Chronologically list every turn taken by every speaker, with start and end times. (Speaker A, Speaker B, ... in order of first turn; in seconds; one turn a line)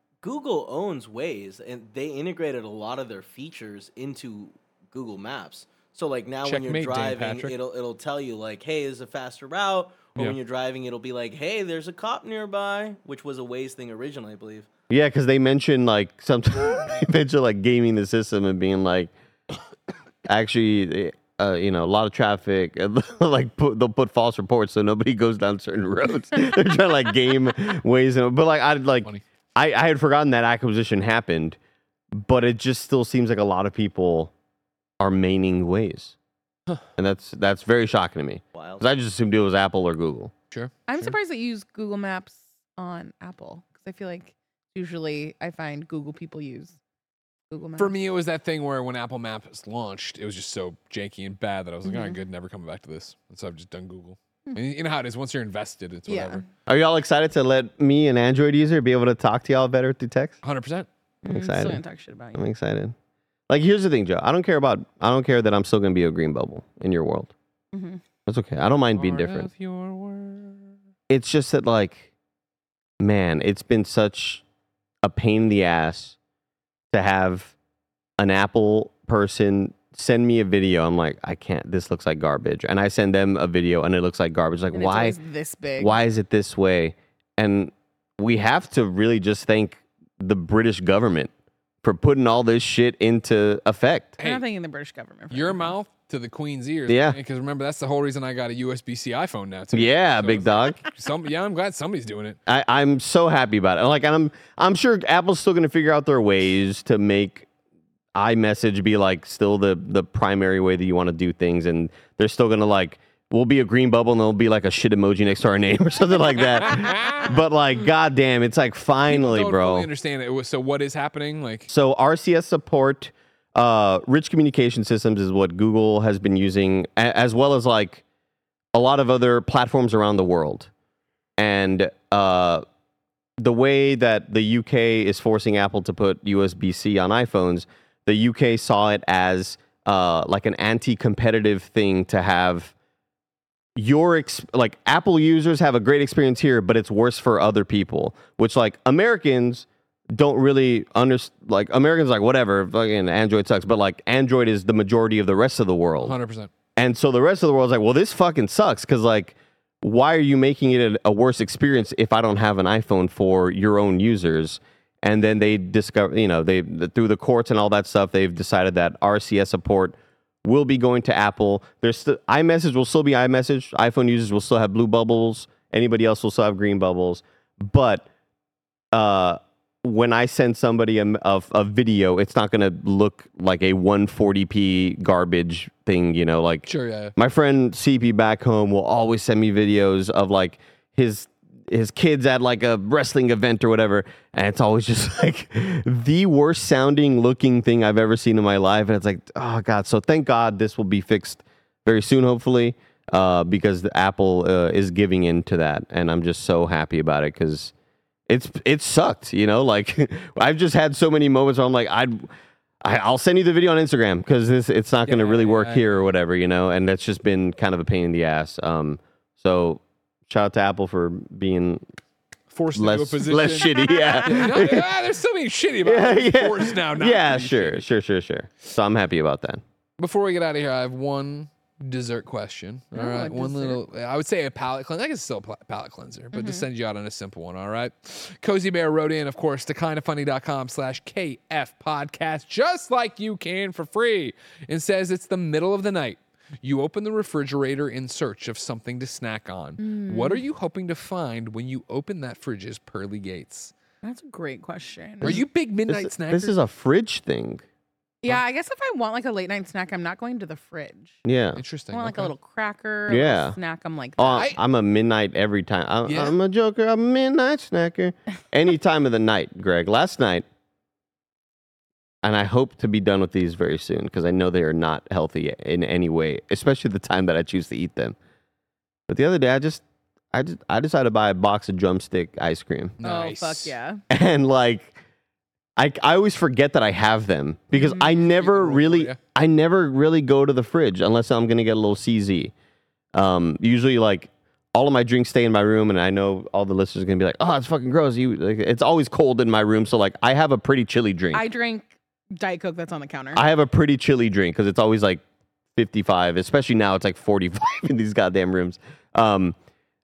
Speaker A: 0.2-14.7
Speaker B: 6.4-7.5
Speaker C: 14.9-19.1
Speaker C: 20.2-31.6
Speaker C: 32.1-34.3
Speaker C: 35.0-36.1
Speaker C: 37.0-40.3
Speaker A: 38.5-38.9
Speaker B: 40.5-41.1
Speaker D: 40.9-46.8
Speaker D: 47.5-47.9
Speaker B: 47.8-56.4
Speaker D: 51.8-52.2
Speaker D: 56.1-56.4
Speaker C: 56.7-60.4
Speaker B: 60.4-60.9
Speaker D: 61.2-62.4
Speaker C: 61.3-61.8
Speaker C: 62.3-62.9
Speaker C: 63.5-67.3
Speaker D: 67.7-68.0
Speaker C: 68.2-69.5
Speaker B: 69.0-70.7
Speaker C: 71.1-72.1
Speaker C: 73.0-74.4
Speaker C: 75.0-76.2
Speaker C: 76.9-77.5
Speaker C: 78.2-85.2
Speaker D: 84.7-86.0
Speaker C: 85.8-91.3
Speaker C: 91.8-94.2
Speaker D: 94.2-95.7
Speaker B: 95.3-102.4
Speaker C: 96.9-97.2
Speaker C: 99.7-100.8
Speaker C: 102.5-107.5
Speaker C: 108.1-119.9
Speaker B: 116.4-117.3
Speaker B: 119.1-121.7
Speaker C: 121.7-128.0
Speaker C: 128.7-130.7
Speaker C: 131.4-132.6
Speaker C: 133.4-142.7
Speaker C: 143.8-156.1
Speaker B: 156.0-156.5
Speaker C: 156.8-178.1
Speaker C: 178.9-207.7
Speaker B: 186.7-187.1
Speaker C: 208.3-212.3
Speaker C: 212.8-221.8
Speaker B: 215.1-216.1
Speaker B: 222.5-227.8
Speaker C: 222.7-224.9
Speaker C: 225.8-229.6
Speaker B: 230.0-253.7
Speaker D: 232.9-233.8
Speaker D: 236.3-236.7
Speaker D: 249.8-250.4
Speaker D: 254.0-255.4
Speaker B: 255.2-256.5
Speaker C: 255.2-257.6
Speaker D: 258.2-261.2
Speaker C: 261.2-261.6
Speaker B: 261.6-262.3
Speaker D: 261.9-264.5
Speaker C: 263.1-263.6
Speaker C: 264.2-270.4
Speaker B: 266.1-266.4
Speaker C: 272.2-278.1
Speaker C: 279.1-283.0
Speaker B: 283.0-283.7
Speaker D: 283.0-284.0
Speaker C: 284.1-284.9
Speaker C: 285.8-292.5
Speaker D: 287.7-288.2
Speaker B: 288.0-289.2
Speaker C: 293.1-301.4
Speaker D: 301.3-303.4
Speaker C: 303.3-305.2
Speaker C: 305.7-309.6